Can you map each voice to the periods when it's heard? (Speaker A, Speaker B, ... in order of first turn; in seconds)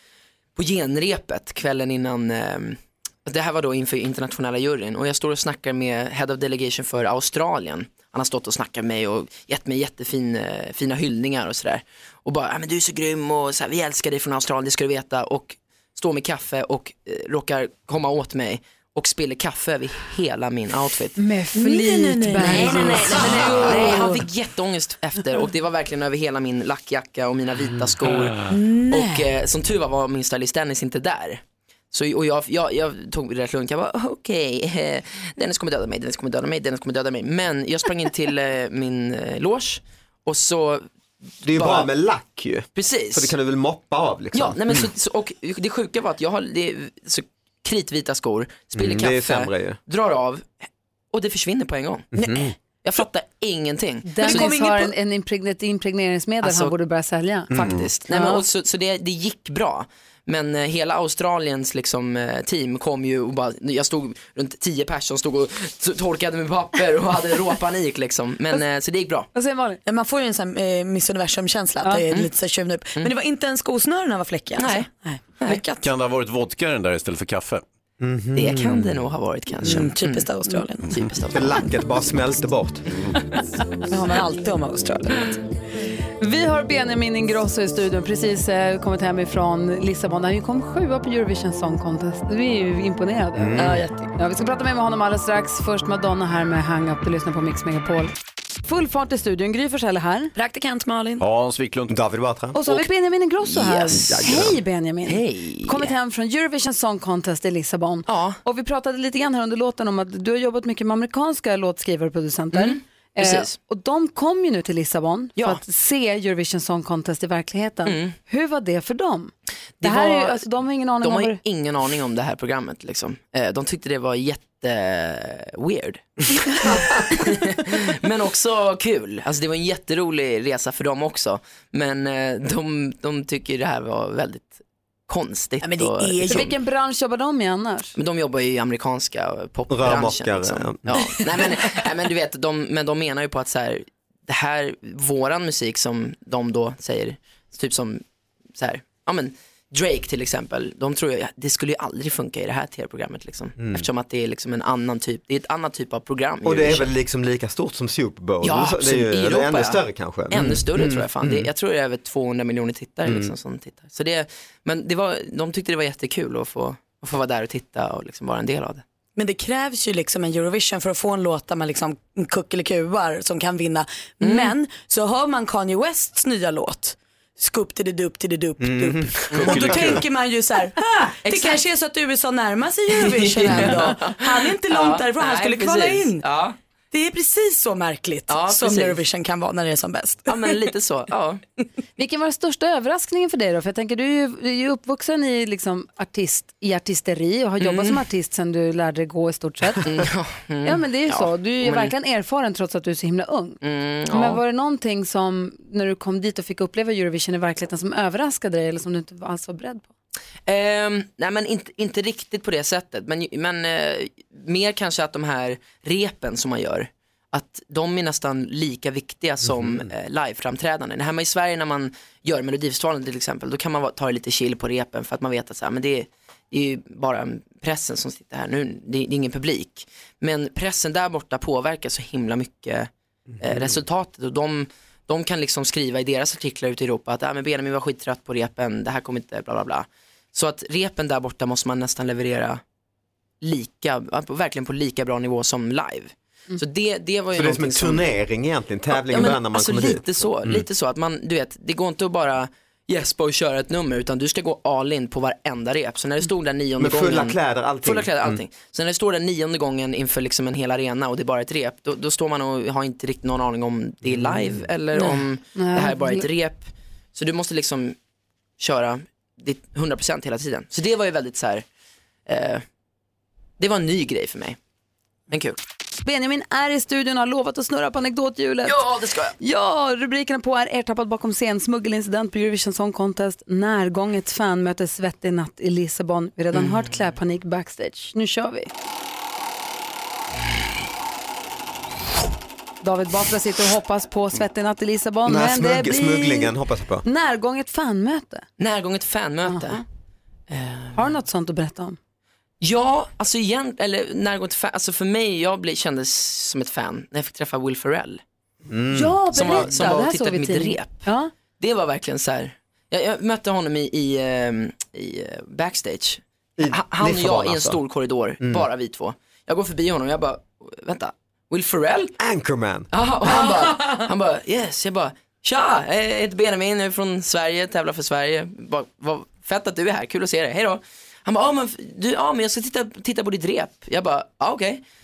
Speaker A: 0.6-21.2, 22.4-31.4, 31.9-40.9, 41.5-41.9, 42.8-43.3, 44.3-50.5, 51.1-52.1, 52.8-54.6, 56.4-56.8, 57.5-69.3, 74.6-74.9, 78.3-80.3, 80.9-81.6, 103.5-103.9, 105.1-105.9, 108.1-108.4, 112.5-113.6, 117.8-118.1, 119.8-120.5, 121.0-126.1, 127.2-134.5, 135.1-136.5, 138.0-148.0, 148.6-156.9, 158.4-168.8, 174.2-174.6, 181.2-181.6, 182.9-186.6, 188.3-189.0, 190.3-191.4, 197.6-198.0, 199.8-201.9, 203.6-204.4, 210.5-232.9, 233.4-242.6, 243.4-248.1, 248.9-268.0, 268.6-271.6, 272.3-272.6, 273.6-274.6, 275.3-275.6, 278.6-279.4, 286.5-286.9, 298.6-299.8, 300.5-301.0, 302.6-308.2, 309.3-311.1, 311.6-322.1, 322.9-334.8
Speaker B: 21.2-24.1, 54.0-58.4, 69.3-69.8, 86.2-98.1, 98.7-100.3, 102.5-121.4, 136.3-137.9, 192.0-199.9, 200.6-203.6, 204.1-209.9, 264.9-266.3, 276.0-278.9, 279.4-288.7, 292.8-296.5, 297.1-298.4, 299.4-299.8, 300.9-302.0, 308.9-311.3
Speaker C: 21.5-24.2, 28.5-29.3, 54.2-54.9, 69.9-75.9, 79.6-80.9, 83.9-85.4, 93.6-94.1, 100.4-101.2, 135.6-136.5, 169.2-186.2, 186.9-190.6
Speaker D: 41.4-44.9, 48.7-49.8, 52.1-52.5, 78.0-78.9, 81.3-82.8, 93.4-93.8, 101.9-102.8, 103.8-104.6, 139.7-140.9, 153.6-153.9, 156.4-161.5, 163.0-163.3, 178.6-179.8, 233.4-233.8, 247.3-250.7, 256.8-258.4, 295.2-297.1, 308.7-310.1, 316.6-317.8, 318.4-318.7, 322.2-322.9
Speaker E: 57.6-57.9, 75.8-77.6, 101.2-102.0, 179.3-180.0